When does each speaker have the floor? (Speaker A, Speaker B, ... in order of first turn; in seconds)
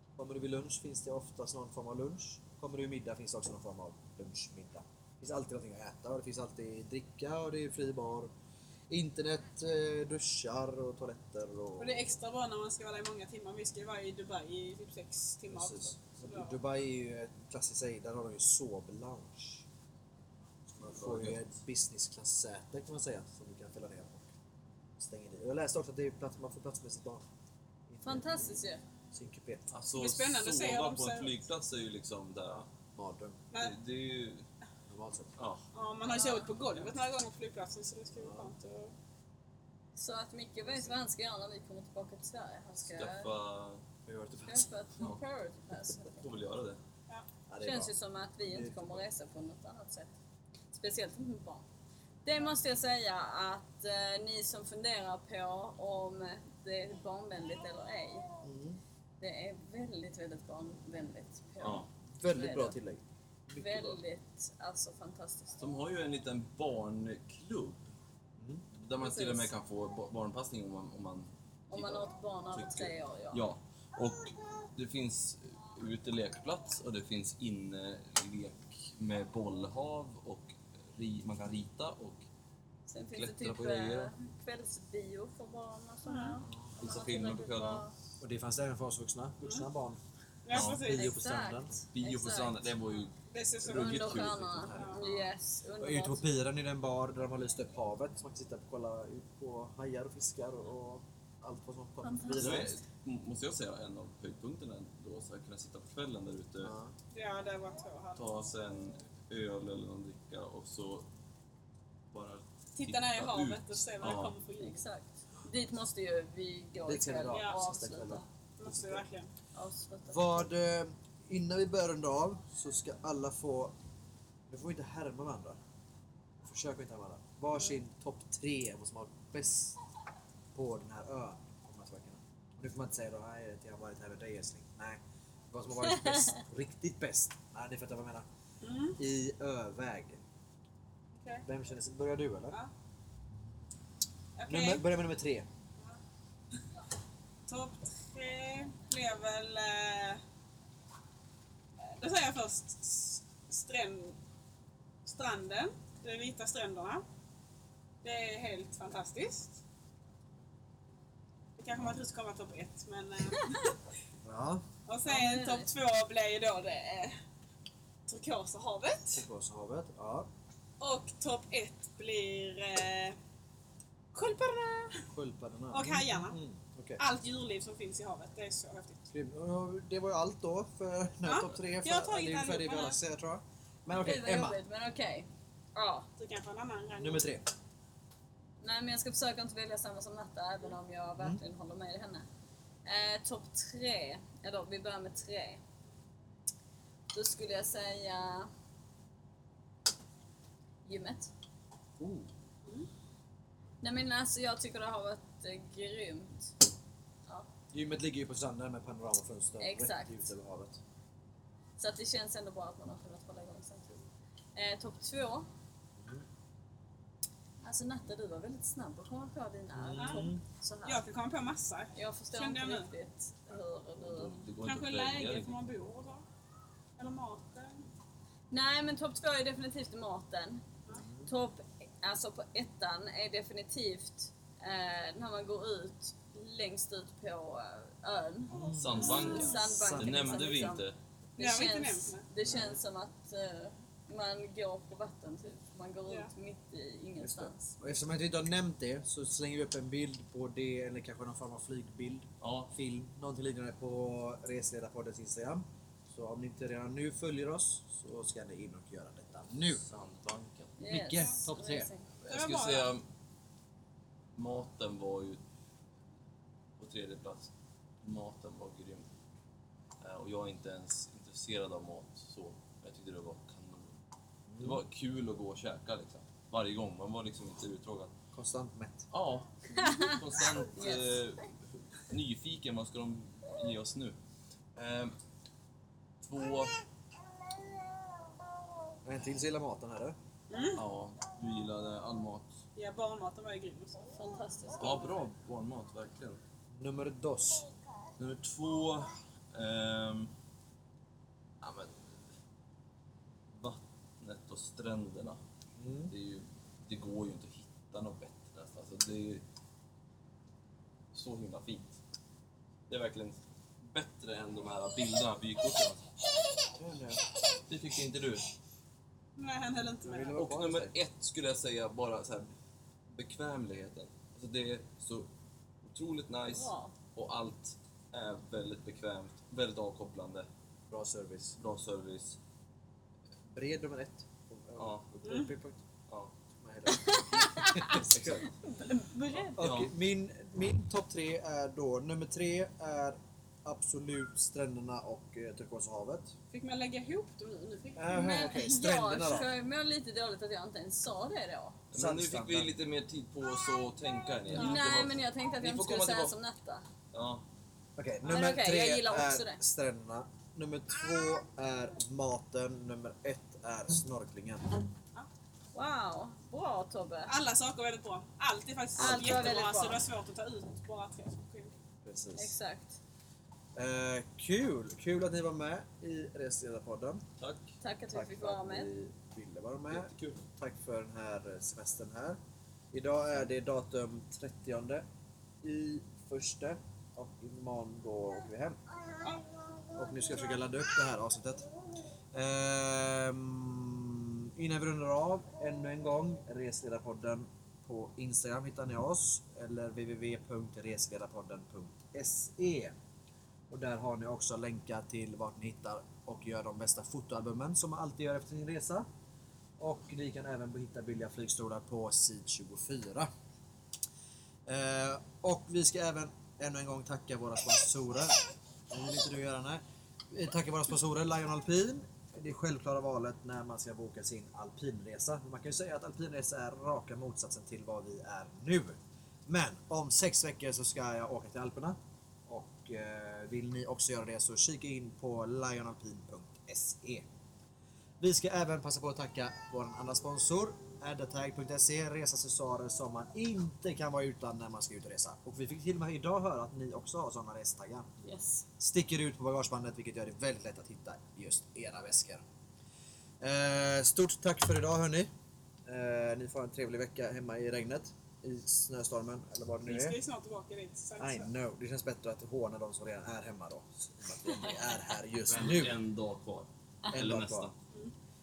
Speaker A: 0.2-8.3, 8.9-12.2, 15.5-19.6, 20.8-24.3, 25.0-27.2, 27.9-29.7, 32.9-33.4, 34.9-35.3, 38.2-38.5, 44.1-44.7, 47.5-47.9, 48.5-49.0, 58.4-58.8, 62.2-64.0, 68.4-68.6, 86.5-86.8, 88.2-90.0, 90.5-91.8, 93.7-95.1, 95.8-102.8, 106.6-106.9, 116.9-119.0, 120.1-123.7, 124.5-125.6, 126.4-129.8, 130.5-138.3, 139.0-140.2, 141.5-142.6, 144.5-145.5, 164.2-164.6, 169.2-170.3, 175.1-177.0, 179.1-184.6, 187.0-187.4, 202.0-202.3, 207.7-210.8, 216.0-216.2, 219.8-220.4, 230.9-231.3, 238.5-240.4, 242.4-242.8, 247.2-259.9, 260.9-261.9, 274.5-274.8, 278.3-279.1, 289.1-290.1, 296.7-297.7, 305.8-306.1, 316.7-317.2, 320.1-320.9, 330.9-331.6, 333.5-335.8, 336.6-338.4, 339.5-346.4, 348.0-349.5, 351.9-352.7, 358.0-364.7, 369.0-369.5, 372.1-372.5, 373.8-377.2, 378.1-382.4, 382.9-385.0, 385.6-388.8, 389.9-391.6, 392.3-402.9, 403.7-409.1, 409.8-413.3, 414.7-418.4, 418.9-432.0, 432.5-437.2, 438.2-448.3, 448.8-452.4, 453.4-455.3, 455.9-460.2, 461.2-466.0, 467.1-467.7
Speaker B: 11.8-16.6, 29.9-31.4, 33.5-33.8, 35.7-38.9, 86.1-86.4, 90.5-91.2, 93.3-95.0, 107.1-108.3, 112.8-114.8, 117.3-117.7, 118.6-119.3, 138.6-139.0, 141.2-141.4, 144.4-144.8, 147.5-150.2, 152.0-154.2, 155.1-157.0, 158.0-159.6, 161.6-163.7, 164.9-167.1, 168.1-169.2, 170.8-173.2, 174.1-175.1, 175.7-176.4, 177.0-179.0, 181.2-183.0, 186.2-187.2, 219.9-220.3, 220.8-222.9, 224.6-226.2, 227.0-227.9, 239.0-239.6, 241.4-242.3, 262.3-262.9, 290.5-290.8, 292.8-294.0, 319.4-320.4, 346.5-348.5, 354.6-355.0, 367.3-371.7, 459.9-461.5
Speaker C: 20.8-21.4, 29.7-32.7, 33.6-34.5, 35.4-35.6, 42.8-43.8, 46.1-46.8, 61.6-61.9, 65.6-67.8, 68.7-82.2, 83.1-84.1, 86.8-87.8, 90.5-90.8, 91.9-93.2, 93.7-95.1, 102.3-106.7, 108.2-111.1, 112.1-114.4, 224.0-225.6, 238.8-241.0, 252.4-252.7, 259.8-260.8, 262.2-263.1, 264.4-265.4, 266.8-267.5, 268.0-269.1, 270.0-273.9, 274.6-278.1, 279.1-284.1, 284.8-285.1, 286.2-286.8, 290.8-292.6, 294.8-296.4, 298.2-300.3, 301.6-302.2, 303.5-305.4, 306.1-309.4, 311.1-312.0, 312.9-316.1, 317.7-318.5, 320.4-322.5, 323.1-325.3, 325.8-330.5, 331.6-332.4, 334.8-335.2, 336.1-336.3, 338.1-338.4, 339.6-339.9, 351.9-356.4, 357.1-357.4, 377.4-377.7, 379.9-380.4, 465.5-467.7
Speaker D: 28.0-28.8, 36.1-36.5, 40.0-43.3, 44.5-46.3, 47.6-50.1, 50.7-51.6, 52.2-58.3, 59.2-62.8, 63.6-65.6, 69.0-69.5, 71.7-73.5, 82.9-87.9, 90.7-92.6, 93.7-96.2, 102.0-102.7, 114.6-118.2, 119.5-120.5, 165.1-165.7, 183.9-186.1, 188.6-192.2, 192.8-195.6, 197.1-198.5, 200.8-201.3, 203.8-206.5, 209.6-210.2, 211.8-214.0, 214.6-215.5, 217.6-221.0, 222.0-224.3, 228.5-230.6, 231.3-240.8, 241.4-247.7, 260.8-262.1, 279.8-280.2, 280.8-281.1, 294.1-295.2, 326.5-326.9, 336.9-339.6, 348.1-351.8, 354.6-356.9, 358.3-359.6, 365.7-367.3, 368.9-370.0, 372.4-373.0, 377.8-378.9, 448.3-448.6, 464.5-464.9